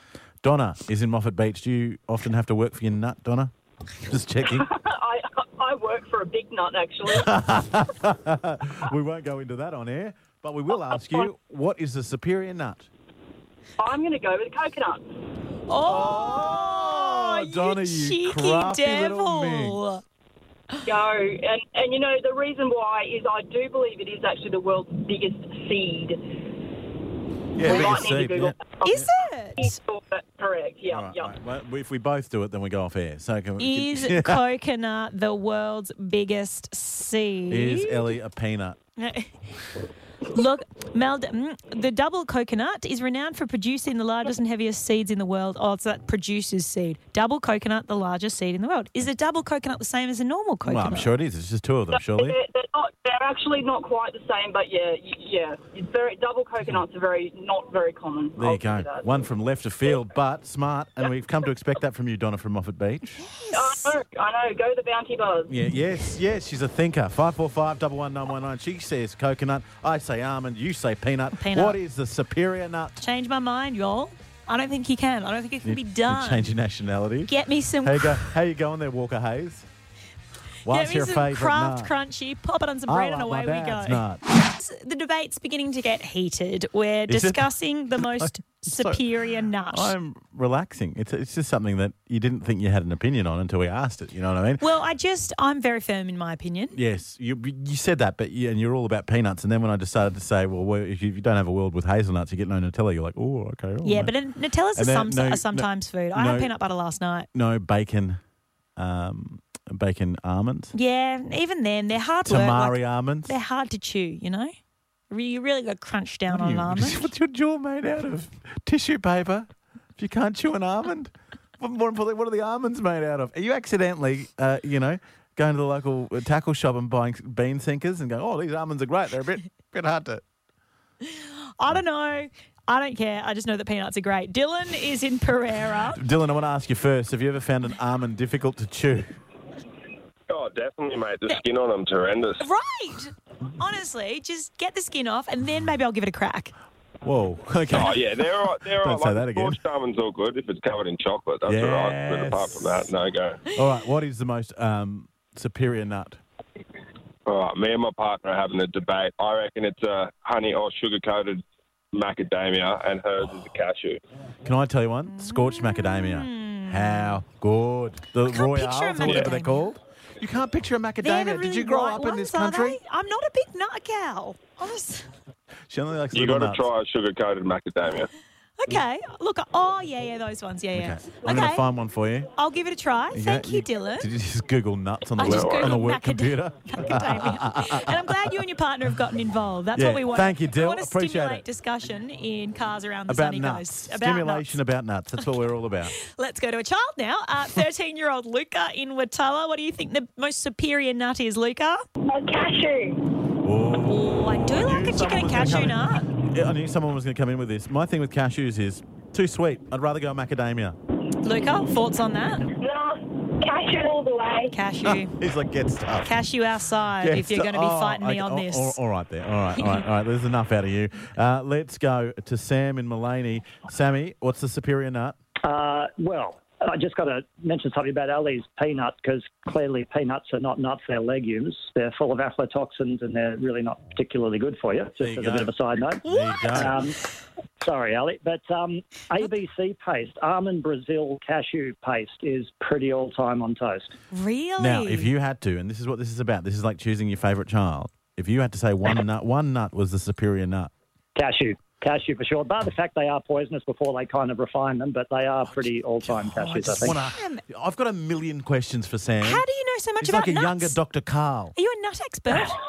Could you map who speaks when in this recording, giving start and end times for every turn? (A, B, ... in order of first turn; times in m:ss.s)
0:00.4-0:04.7 A
0:04.4-0:07.6 B
0:07.1-0:12.9 A
0:10.9-0:11.3 B
0:13.8-0:15.1 B
0:15.7-0:20.0 C
0:15.8-0:19.9 A
0:20.8-0:26.2 B
0:27.6-0:28.9 A
0:27.6-0:31.4 B
0:28.8-0:29.8 C
0:30.9-0:34.4 A
0:33.6-0:38.0 C
0:37.5-0:38.8 A
0:39.0-0:39.4 C
0:40.3-0:51.1 C
0:50.6-0:52.4 A
0:51.9-0:59.3 B
0:58.4-1:03.2 A
1:03.2-1:04.0 C
1:03.5-1:05.6 B
1:05.5-1:13.0 A
1:11.3-1:11.8 C
1:13.0-1:16.5 C
1:15.6-1:17.3 A
1:17.3-1:18.3 C
1:17.8-1:19.7 A
1:20.6-1:21.9 A
1:20.6-1:29.9 C
1:22.9-1:24.2 A
1:27.1-1:29.0 A
1:29.7-1:34.6 A
1:34.6-1:36.8 C
1:36.7-1:44.1 A
1:43.8-1:47.3 C
1:44.7-1:46.5 A
1:47.3-1:48.2 A
1:48.8-1:50.7 A
1:50.7-1:54.5 C
1:52.2-1:53.4 A
1:55.1-1:57.0 C
1:56.3-2:10.2 A
2:11.6-2:16.0 C
2:15.9-2:19.2 A
2:20.3-2:22.4 D
2:22.4-2:26.5 C
2:27.0-2:28.1 A
2:27.7-2:33.4 D
2:28.8-2:29.6 A
2:31.4-2:32.9 A
2:33.5-2:36.2 A
2:37.3-2:44.0 D
2:44.4-2:52.8 A
2:45.2-2:47.2 C
2:48.2-2:49.7 C
2:49.0-2:49.3 D
2:51.0-2:55.1 C
2:55.7-2:56.7 A
2:56.1-2:58.1 D
2:58.6-3:01.6 C
3:00.7-3:02.3 A
3:02.4-3:04.1 C
3:03.1-3:08.3 A
3:05.2-3:14.6 C
3:05.2-3:05.8 D
3:09.7-3:11.4 A
3:13.1-3:15.9 A
3:16.0-3:21.8 C
3:22.1-3:23.0 E
3:23.4-3:30.8 A
3:23.9-3:26.1 C
3:31.2-3:32.5 C
3:32.6-3:34.5 E
3:34.5-3:35.1 C
3:34.8-3:36.1 A
3:36.0-3:38.8 C
3:37.0-3:45.2 A
3:39.6-3:39.8 C
3:45.4-3:57.0 F
3:55.0-3:56.8 A
3:56.1-3:56.6 C
3:57.6-4:03.9 F
4:04.1-4:05.1 C
4:04.6-4:10.7 A
4:11.1-4:17.0 F
4:15.4-4:19.4 A
4:16.5-4:17.4 C
4:19.2-4:20.8 C
4:20.0-4:21.5 A
4:21.5-4:22.6 C